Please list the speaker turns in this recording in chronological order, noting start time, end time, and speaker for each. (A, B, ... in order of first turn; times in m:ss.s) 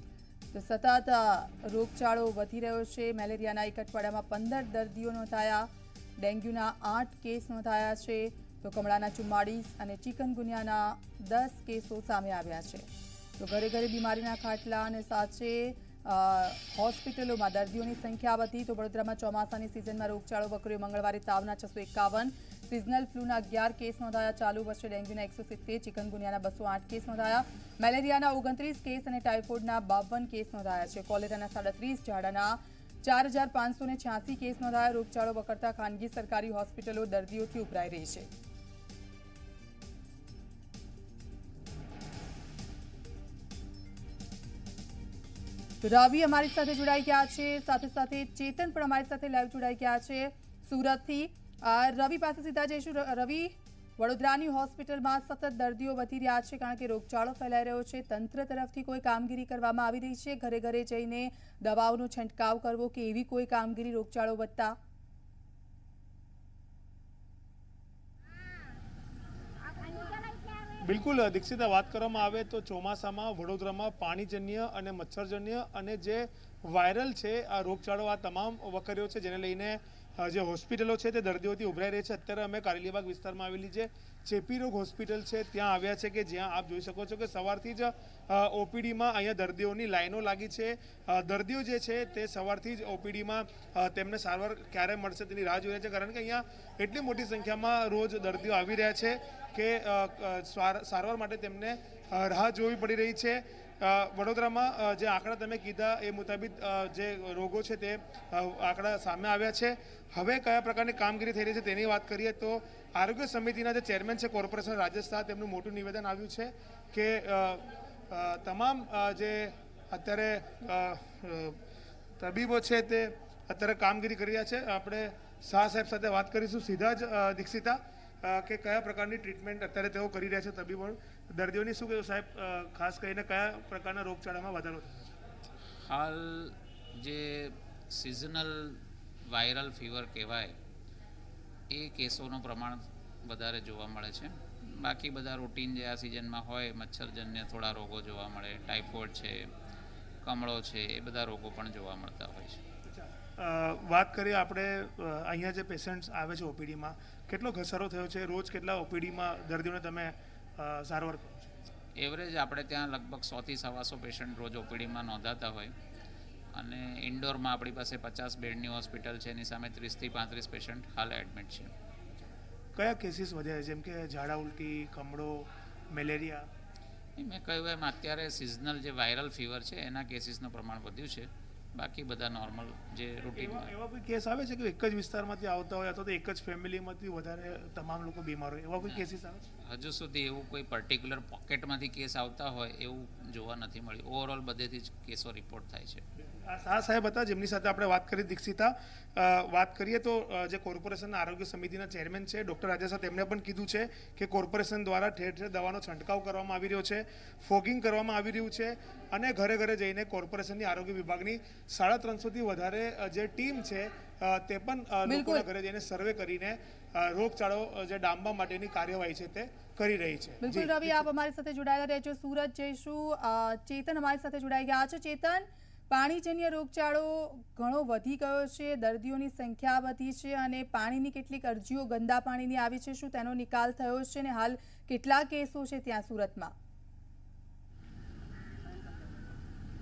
0:00.5-0:12.9 A
0:13.4-0:38.3 A
0:45.8-1:04.8 A
1:10.8-2:01.6 B
2:02.2-2:15.0 B
2:15.8-2:20.5 C
2:21.7-2:29.5 C
2:30.2-2:32.6 C
2:33.4-2:41.5 B
2:42.0-2:45.7 C
2:46.5-2:51.7 C
2:52.8-2:56.5 B
2:57.2-3:03.7 C
3:03.3-3:09.4 B
3:09.7-3:16.0 C
3:16.4-3:41.0 B
3:35.1-3:35.4 A
3:40.4-3:56.5 A